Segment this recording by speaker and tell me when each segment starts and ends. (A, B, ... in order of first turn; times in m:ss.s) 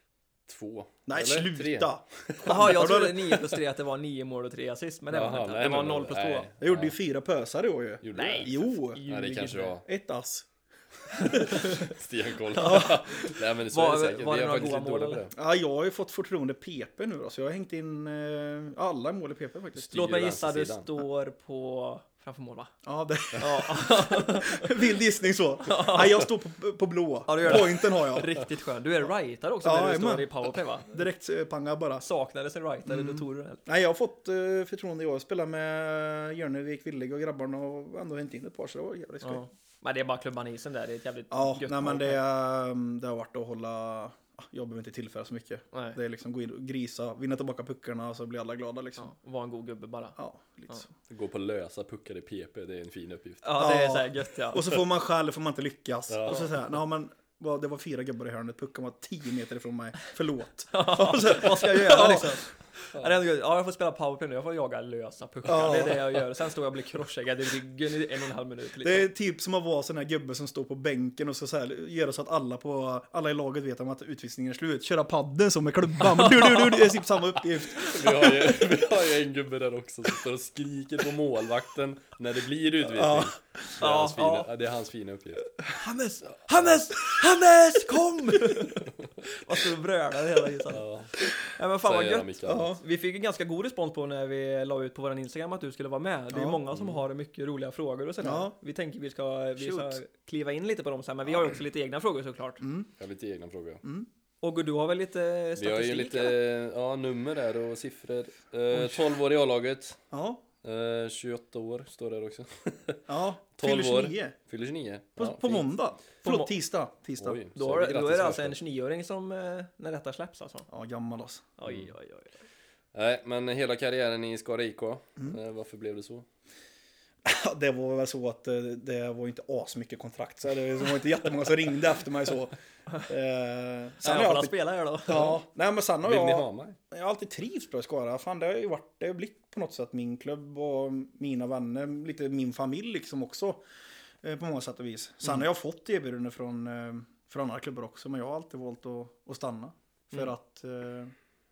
0:00.5-0:02.8 A
0:01.1-0:03.6 B
0:02.4-0:06.5 C
0:05.1-0:06.9 A
0:06.6-0:10.5 B
0:08.0-0:09.8 A
0:08.1-0:09.7 C
0:11.2-0:11.9 C
0:11.2-0:11.7 B
0:11.3-0:15.3 A
0:12.5-0:15.2 C
0:12.6-0:13.0 B
0:15.3-0:19.9 B
0:19.8-0:20.9 A
0:19.9-0:22.7 C
0:22.8-0:28.3 B
0:23.4-0:24.9 C
0:25.6-0:26.3 C
0:27.3-0:31.0 C
0:29.6-0:32.0 B
0:32.0-0:33.6 C
0:32.8-0:39.4 B
0:39.2-0:42.2 C
0:41.3-0:49.1 B
0:45.7-0:46.0 C
0:49.0-0:50.2 C
0:50.2-0:50.9 B
0:51.1-0:53.5 A
0:53.4-0:54.8 C
0:53.6-1:02.4 B
0:56.1-0:56.5 A
1:00.7-1:09.1 C
1:05.4-1:06.2 B
1:08.8-1:18.6 B
1:16.1-1:17.0 C
1:17.8-1:25.5 A
1:22.8-1:23.8 B
1:23.8-1:24.5 C
1:25.7-1:42.6 C
1:28.3-1:28.8 B
1:30.7-1:31.1 A
1:31.8-1:32.7 A
1:32.4-1:32.8 B
1:36.3-1:36.6 B
1:36.7-1:37.0 A
1:38.2-1:38.5 B
1:39.6-1:40.0 B
1:42.6-1:42.9 B
1:43.0-1:43.8 A
1:43.8-1:44.1 B
1:44.4-1:46.4 C
1:45.6-1:50.0 A
1:50.1-1:50.4 B
1:50.6-1:55.6 A
1:53.1-1:54.3 B
1:55.2-1:57.4 B
1:56.2-1:56.5 C
1:57.2-1:58.6 A
1:57.5-2:00.7 C
2:00.7-2:01.5 B
2:01.6-2:02.4 C
2:01.6-2:01.9 A
2:02.9-2:06.2 A
2:07.2-2:23.6 B
2:14.0-2:15.4 C
2:16.0-2:16.8 A
2:24.2-2:31.1 B